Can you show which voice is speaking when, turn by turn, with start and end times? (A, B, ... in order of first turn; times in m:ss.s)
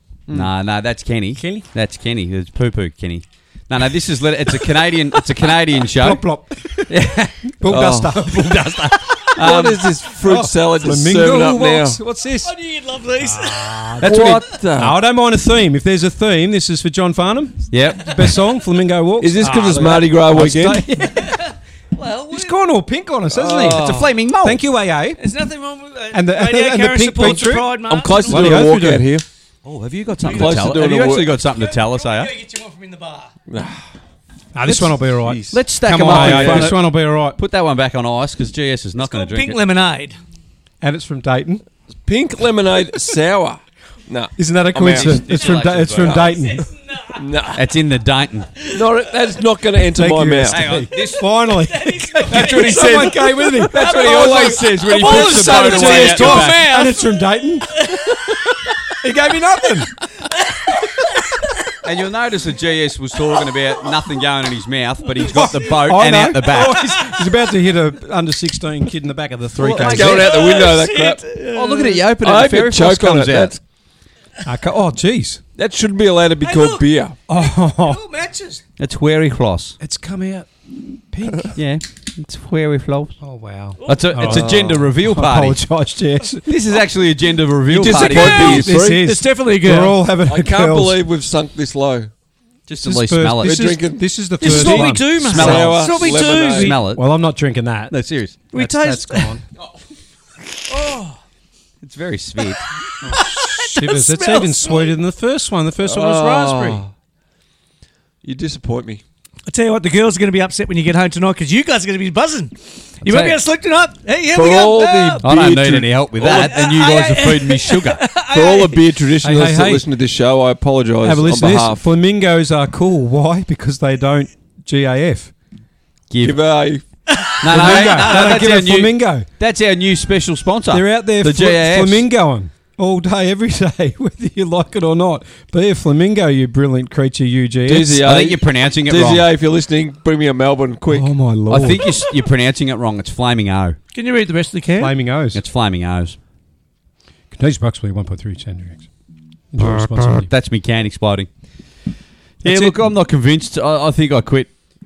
0:00.3-0:06.2 A
0:01.4-0:01.7 B
0:05.9-0:07.0 B
0:06.9-0:07.4 A
0:07.6-0:09.6 B
0:07.6-0:08.5 C
0:09.3-0:12.0 C
0:09.4-0:09.8 A
0:10.1-0:12.5 B
0:12.4-0:14.2 D
0:13.2-0:21.4 B
0:14.0-0:15.0 C
0:17.7-0:18.2 A
0:19.2-0:20.8 C
0:21.1-0:22.6 D
0:22.3-0:23.9 B
0:23.3-0:24.1 C
0:23.6-0:24.6 A
0:24.4-0:25.2 B
0:25.2-0:28.7 D
0:26.1-0:29.1 B
0:27.9-0:29.2 C
0:29.6-0:32.3 A
0:30.3-0:31.4 C
0:30.3-0:30.8 D
0:31.4-0:33.3 D
0:33.5-0:33.8 C
0:34.6-0:37.4 B
0:34.6-0:35.0 A
0:35.2-0:35.6 C
0:35.5-0:39.6 A
0:36.1-0:36.7 C
0:39.0-0:40.2 D
0:40.8-0:41.6 B
0:42.1-0:45.3 C
0:44.4-0:46.7 B
0:44.7-0:46.3 A
0:46.0-0:46.3 C
0:46.4-0:47.2 D
0:47.2-0:47.6 C
0:47.6-0:48.5 A
0:48.7-0:50.6 C
0:49.9-0:58.3 B
0:50.5-0:51.2 A
0:51.6-0:57.1 D
0:52.3-0:53.1 C
0:52.5-0:53.1 A
0:53.6-0:56.7 A
0:57.7-0:58.4 D
0:59.0-0:59.9 B
1:00.3-1:00.7 D
1:01.8-1:07.1 A
1:05.3-1:10.3 B
1:09.6-1:10.3 A
1:09.8-1:11.2 C
1:10.0-1:12.0 D
1:11.5-1:13.6 A
1:12.2-1:13.6 C
1:14.4-1:15.4 B
1:15.6-1:17.2 C
1:16.4-1:18.6 D
1:17.3-1:18.0 B
1:18.8-1:19.8 A
1:19.8-1:20.5 B
1:21.1-1:21.6 B
1:21.6-1:23.2 A
1:23.2-1:26.5 B
1:23.8-1:24.5 D
1:23.8-1:25.6 A
1:26.5-1:28.7 A
1:27.7-1:29.0 C
1:27.9-1:30.0 D
1:28.1-1:31.0 B
1:30.2-1:32.1 C
1:32.7-1:33.8 A
1:32.7-1:35.2 B
1:33.4-1:36.8 C
1:34.4-1:36.8 D
1:34.4-1:37.0 A
1:36.9-1:38.0 B
1:37.9-1:38.5 A
1:38.5-1:39.4 B
1:38.5-1:39.4 D
1:40.7-1:41.1 D
1:41.8-1:42.6 A
1:43.0-1:46.8 B
1:43.1-1:45.0 D
1:45.8-1:46.9 C
1:48.2-1:49.0 C
1:49.5-1:55.3 D
1:53.0-1:53.4 A
1:54.3-1:56.6 C
1:55.2-1:58.0 A
1:56.2-1:58.8 D
1:58.3-2:01.8 C
1:59.2-1:59.9 B
2:01.0-2:05.3 B
2:06.1-2:06.4 A
2:06.2-2:06.8 C
2:07.1-2:08.4 D
2:07.4-2:12.1 A
2:07.5-2:09.3 B
2:10.7-2:18.0 B
2:17.7-2:21.1 C
2:18.0-2:19.3 A
2:20.9-2:21.9 B
2:21.5-2:23.8 A
2:23.9-2:24.9 D
2:24.8-2:25.4 B
2:25.3-2:26.2 A
2:27.3-2:28.8 B
2:29.5-2:30.3 B
2:29.6-2:31.3 A
2:32.4-2:34.5 A
2:32.4-2:32.8 B